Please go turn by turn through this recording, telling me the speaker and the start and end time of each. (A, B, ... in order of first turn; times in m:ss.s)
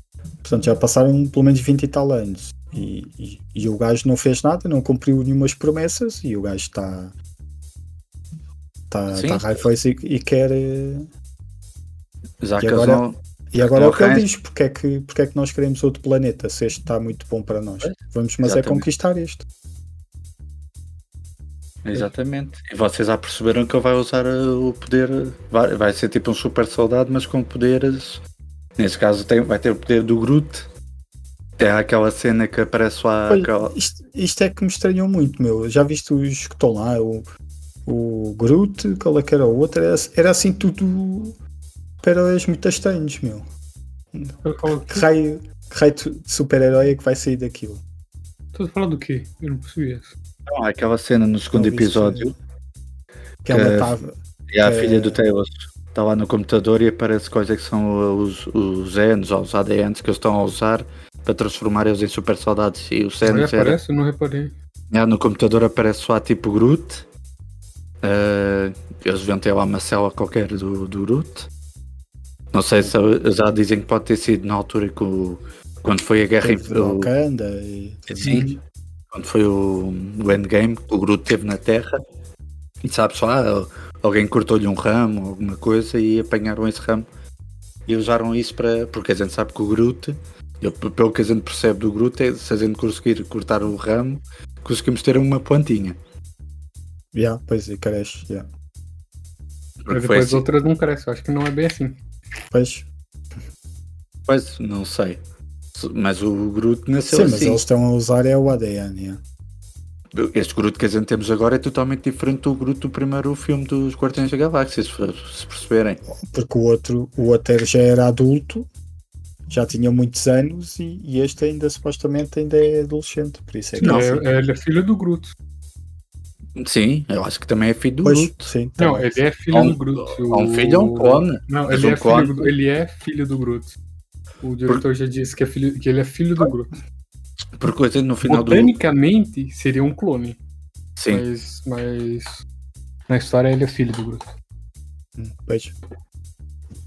0:00.4-0:07.1 A
0:08.9-0:11.1 A
0:09.1-0:09.6 B
0:12.4-0:14.3 B
0:12.6-0:19.4 A
0:17.8-0:18.8 B
0:21.8-0:28.2 B
0:28.8-0:30.7 B
0:31.6-0:33.7 B
0:33.3-0:37.3 A
0:37.8-0:41.4 A
0:42.0-0:43.4 A
0:44.1-0:47.8 A
0:44.4-0:45.1 C
0:48.5-0:50.1 C
0:50.5-0:52.3 B
0:51.5-0:52.4 A
0:53.4-0:55.2 A
0:53.5-0:53.9 B
0:54.5-1:03.8 B
1:03.2-1:04.5 C
1:04.9-1:07.0 B
1:08.0-1:11.5 B
1:12.5-1:17.1 B
1:16.4-1:18.6 A
1:18.1-1:18.6 B
1:19.1-1:22.0 B
1:22.8-1:27.1 B
1:27.9-1:36.0 B
1:37.1-1:38.5 A
1:39.8-1:40.4 B
1:39.9-1:42.0 C
1:42.5-1:42.9 A
1:44.3-1:45.2 B
1:45.7-1:47.6 B
1:47.1-1:49.2 A
1:50.1-1:56.0 B
1:56.1-1:58.7 A
1:59.5-2:04.1 A
2:03.8-2:05.3 C
2:03.8-2:04.2 B
2:06.6-2:08.5 B
2:08.0-2:09.1 A
2:08.8-2:13.7 C
2:09.5-2:12.5 B
2:14.4-2:16.7 C
2:17.6-2:18.7 B
2:18.2-2:20.4 C
2:21.0-2:21.2 B
2:21.1-2:22.4 C
2:23.1-2:24.3 C
2:25.2-2:25.8 A